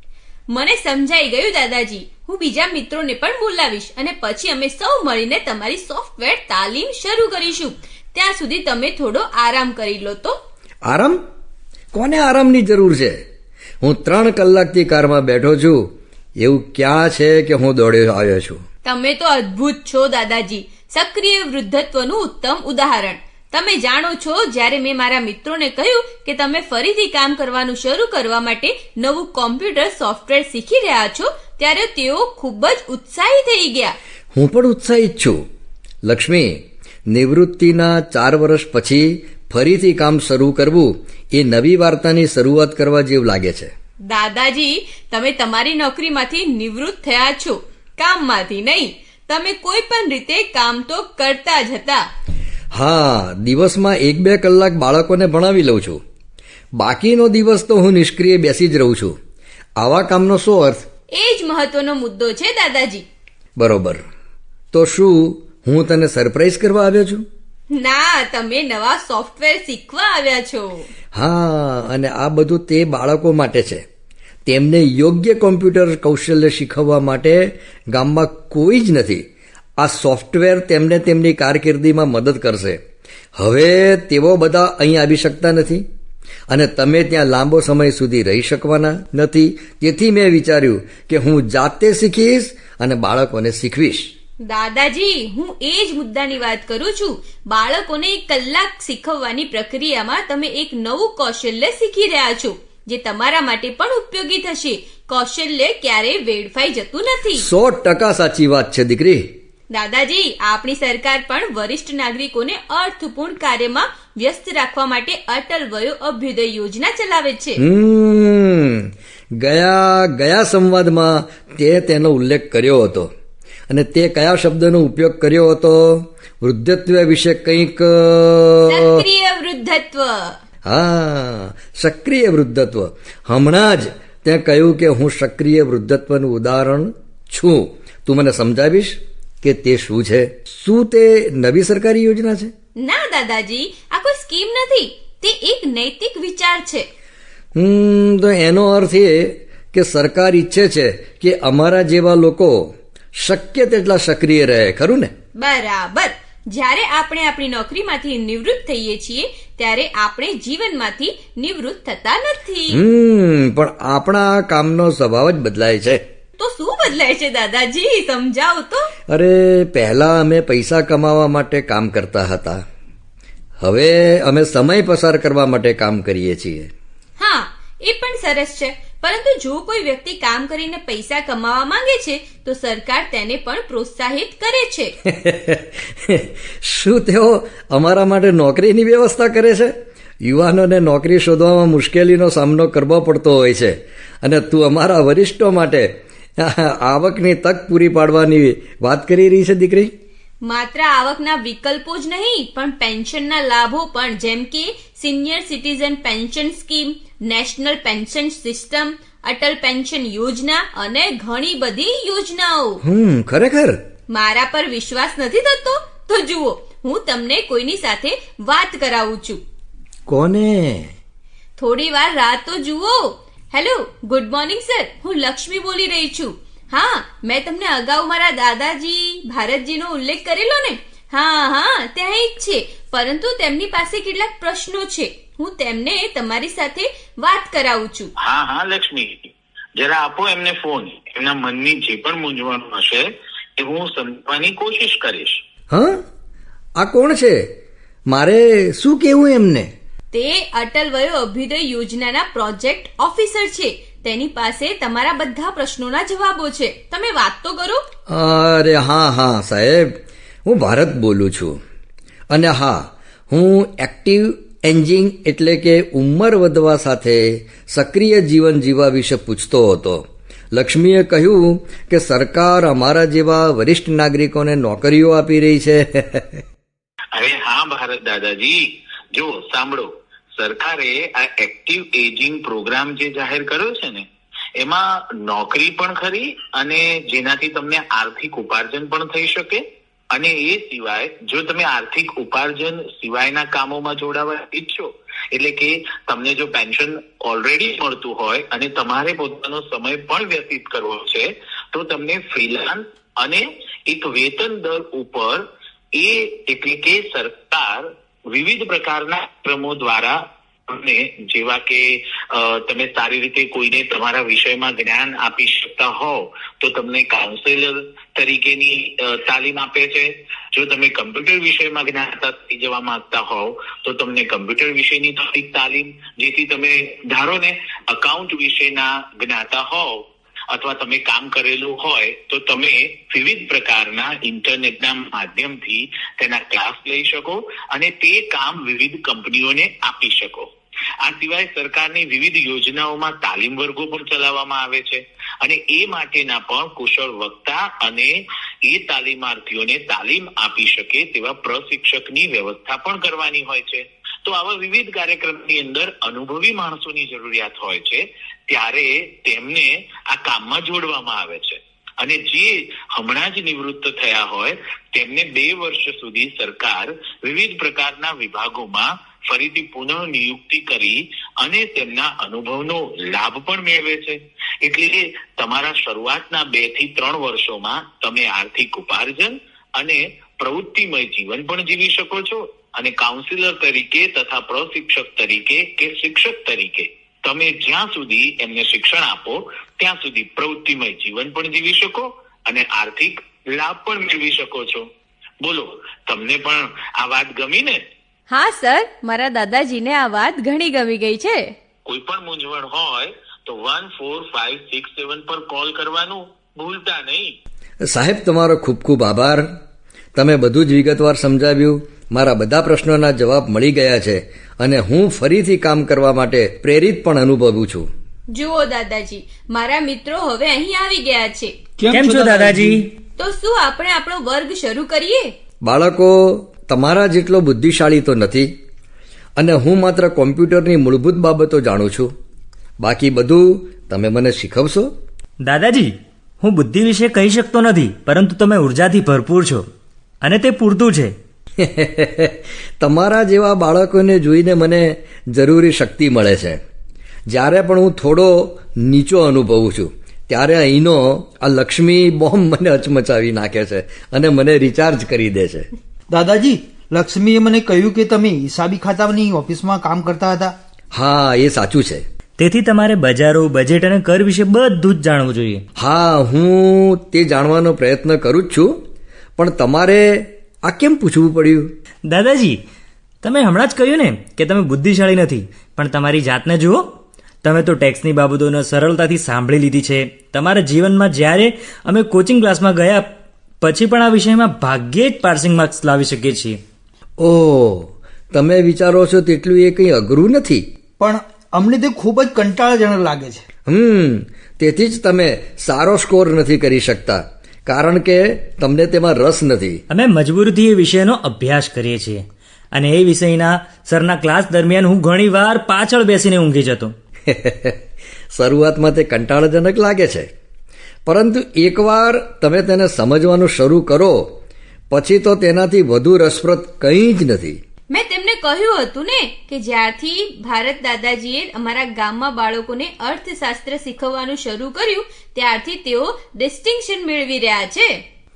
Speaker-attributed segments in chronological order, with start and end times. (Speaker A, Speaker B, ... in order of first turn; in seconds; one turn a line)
Speaker A: 0.5-10.4
Speaker B: 10.9-11.2
Speaker B: 11.9-13.2
Speaker B: 13.8-18.6
Speaker A: 18.9-34.0
Speaker B: 34.3-35.4
Speaker B: 36.0-43.7
Speaker A: 44.1-52.1
Speaker B: 52.7-56.0
Speaker B: 56.8-59.2
Speaker B: 59.8-60.9
Speaker A: 61.2-63.0
Speaker B: 63.6-64.0
Speaker B: 64.7-67.2
Speaker A: 67.7-70.9
Speaker B: 71.1-73.8
Speaker B: 74.5-79.3
Speaker B: 79.8-82.8
Speaker B: 83.4-85.8
Speaker B: 86.5-94.1
Speaker A: 94.5-107.5
Speaker B: 107.4-109.3
Speaker A: 109.7-117.6
Speaker B: 117.6-123.1
Speaker B: 123.7-129.0
Speaker A: 128.7-130.4
Speaker B: 130.7-142.5
Speaker A: 142.8-146.9
Speaker B: 147.6-155.1
Speaker A: 155.4-162.8
Speaker B: 162.7-166.0
Speaker A: 166.4-168.9
Speaker B: 169.1-172.6
Speaker B: 173.6-176.7
Speaker A: 177.2-184.9
Speaker B: 185.1-199.9
Speaker A: 200.4-212.8
Speaker B: 212.8-213.8
Speaker A: 214.1-219.4
Speaker B: 220.1-220.9
Speaker A: 221.6-238.1
Speaker C: 238.2-245.4
Speaker B: 245.7-246.0
Speaker B: 246.8-247.5
Speaker B: 248.1-249.7
Speaker A: 250.1-257.8
Speaker B: 258.1-261.6
Speaker B: 262.3-276.4
Speaker C: 277.1-284.1
Speaker C: 284.6-340.5
Speaker C: 341.0-394.9
Speaker C: 395.4-397.8
Speaker A: 398.3-401.5
Speaker C: 401.9-407.3
Speaker B: 407.9-409.5
Speaker B: 410.1-417.9
Speaker A: 418.3-421.5
Speaker D: 421.8-422.8
Speaker E: 421.9-422.9
Speaker A: 423.2-425.3
Speaker B: 425.6-428.5
Speaker B: 429.4-432.1
Speaker B: 432.8-434.9
Speaker E: 435.4-439.6
Speaker E: 440.2-441.1
Speaker B: 441.6-446.6
Speaker B: 447.3-455.7
Speaker D: 456.1-460.6
Speaker B: 460.9-462.0
Speaker E: 462.4-465.6
Speaker B: 465.8-468.8
Speaker B: 469.4-471.7
Speaker E: 472.1-472.6
Speaker E: 473.2-476.9
Speaker E: 477.4-483.1
Speaker E: 483.6-486.6
Speaker B: 487.2-490.7
Speaker D: 491.0-493.4
Speaker B: 493.7-499.8
Speaker E: 499.9-506.9
Speaker B: 507.3-507.8
Speaker B: 508.3-510.3
Speaker B: 511.1-514.3
Speaker B: 514.9-517.6
Speaker A: 517.9-528.0